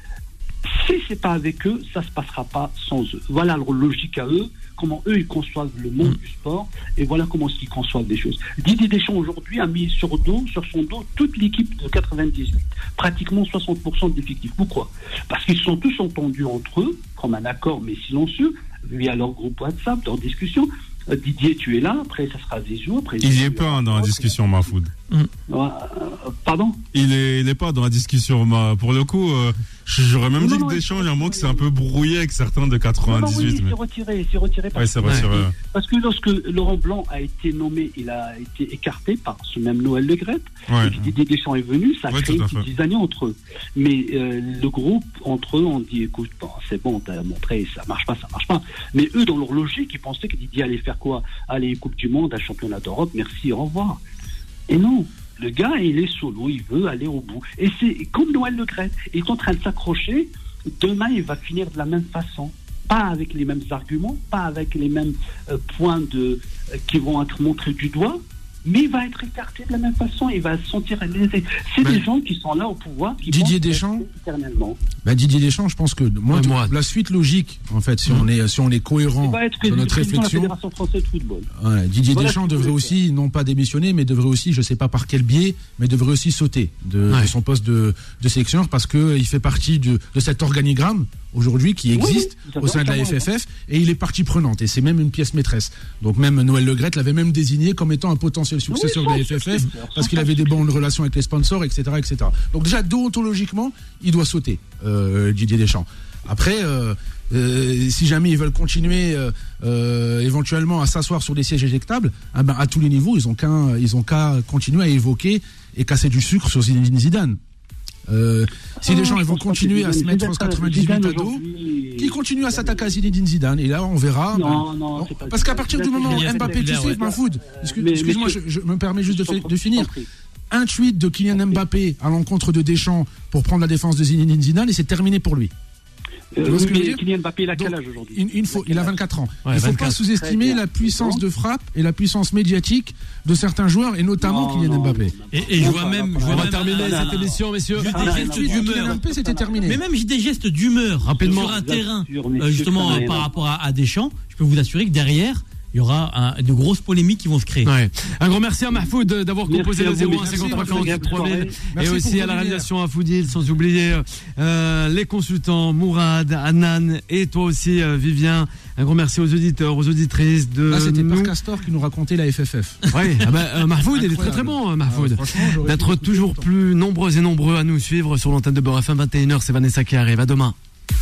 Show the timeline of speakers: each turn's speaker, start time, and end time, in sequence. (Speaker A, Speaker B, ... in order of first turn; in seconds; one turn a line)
Speaker A: 0.7-24.7
Speaker B: 23.2-24.9
Speaker A: 25.5-26.8
Speaker B: 26.9-33.7
Speaker A: 30.4-31.6
Speaker A: 33.0-54.0
Speaker B: 34.7-35.5
Speaker B: 40.7-41.1
Speaker B: 42.1-42.6
Speaker A: 54.7-74.8
Speaker C: 73.2-74.1
Speaker C: 75.0-80.5
Speaker D: 76.3-76.7
Speaker A: 79.2-81.5
Speaker C: 81.5-117.4
Speaker A: 82.1-83.0
Speaker A: 91.9-93.3
Speaker A: 98.7-100.7
Speaker C: 118.1-121.4
Speaker A: 118.8-123.0
Speaker C: 122.0-129.9
Speaker A: 124.3-128.4
Speaker E: 126.0-127.1
Speaker A: 129.0-130.1
Speaker C: 130.5-135.5
Speaker A: 131.3-131.6
Speaker A: 136.3-139.0
Speaker C: 136.4-137.0
Speaker C: 137.5-145.2
Speaker D: 139.4-139.9
Speaker A: 139.9-141.2
Speaker A: 144.2-149.8
Speaker E: 145.3-149.0
Speaker D: 146.2-148.0
Speaker C: 147.9-149.8
Speaker E: 149.6-157.7
Speaker D: 151.1-151.6
Speaker A: 151.2-153.3
Speaker D: 157.6-171.3
Speaker A: 158.7-161.6
Speaker C: 160.2-162.7
Speaker C: 170.7-172.8
Speaker D: 172.9-180.5
Speaker C: 173.9-176.5